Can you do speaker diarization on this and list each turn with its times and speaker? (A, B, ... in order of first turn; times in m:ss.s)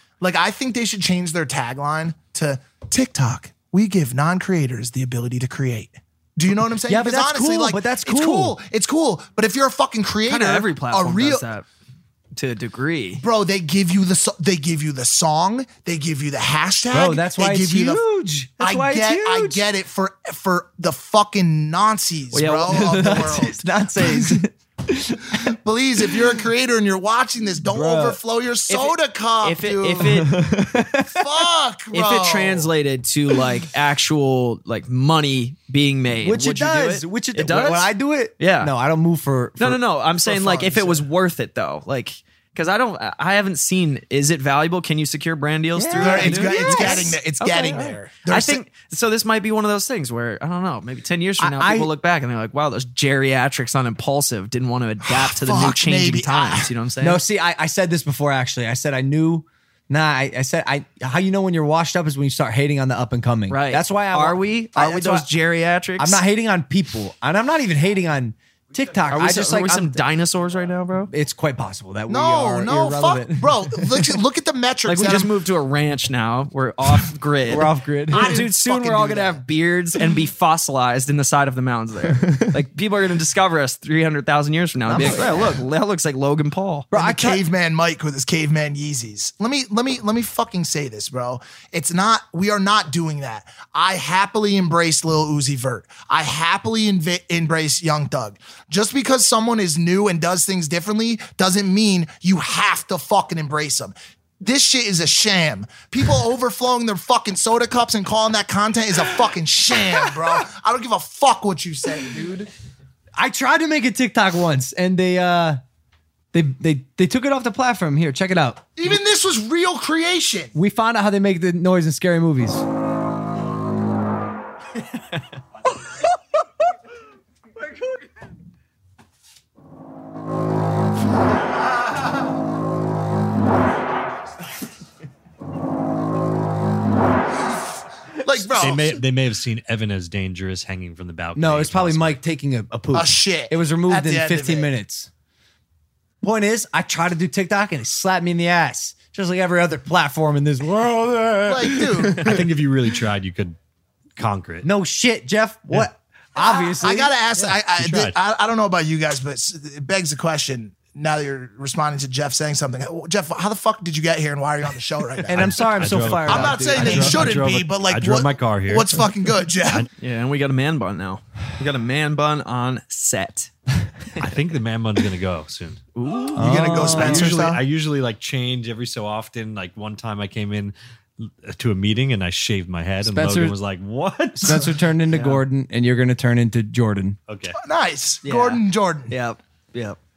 0:00.2-0:11.5 A
0:06.9-0:08.6 B
0:10.2-0:11.6 C
0:12.3-0:13.2 C
0:13.2-0:18.0 A
0:16.9-0:19.6 B
0:18.6-0:23.6 A
0:22.3-0:24.4 C
0:22.7-0:25.4 B
0:25.5-0:30.3 A
0:27.6-0:28.2 B
0:28.7-0:30.8 C
0:30.1-0:31.0 B
0:31.0-0:32.7 A
0:31.9-0:38.7 C
0:36.2-0:39.8 B
0:39.6-0:57.2 C
0:40.2-0:40.9 A
0:45.7-0:47.2 B
0:46.0-0:48.6 A
0:51.4-0:51.9 B
0:55.0-0:56.7 A
0:57.0-1:05.2 B
1:03.5-1:06.2 C
1:06.0-1:10.0 B
1:09.1-1:11.1 C
1:11.1-1:14.2 B
1:12.1-1:15.3 A
1:14.8-1:26.9 C
1:17.4-1:18.5 B
1:18.1-1:19.4 A
1:22.2-1:22.5 B
1:24.8-1:25.6 B
1:26.9-1:27.4 B
1:26.9-1:52.5 A
1:53.2-1:55.6 B
1:56.3-1:58.7 B
1:58.8-2:00.5 A
2:00.5-2:02.6 B
2:18.2-2:19.0 A
2:18.5-2:22.2 D
2:21.4-2:25.1 B
2:22.9-2:24.7 A
2:26.2-2:32.4 B
2:31.4-2:32.4 A
2:32.2-2:33.6 D
2:34.2-2:34.6 D
2:34.6-2:37.5 B
2:36.4-2:49.9 A
2:37.8-2:38.2 D
2:45.3-2:47.4 B
2:45.3-2:49.0 D
2:49.6-2:49.9 D
2:50.0-2:53.5 C
2:54.2-2:55.8 D
2:55.9-2:56.4 C
2:56.3-2:57.3 B
2:56.3-2:57.6 A
2:56.8-3:04.7 D
3:03.0-3:03.6 B
3:04.4-3:07.2 B
3:05.1-3:05.4 C
3:07.3-3:07.6 D
3:07.6-3:09.1 A
3:08.2-3:10.0 C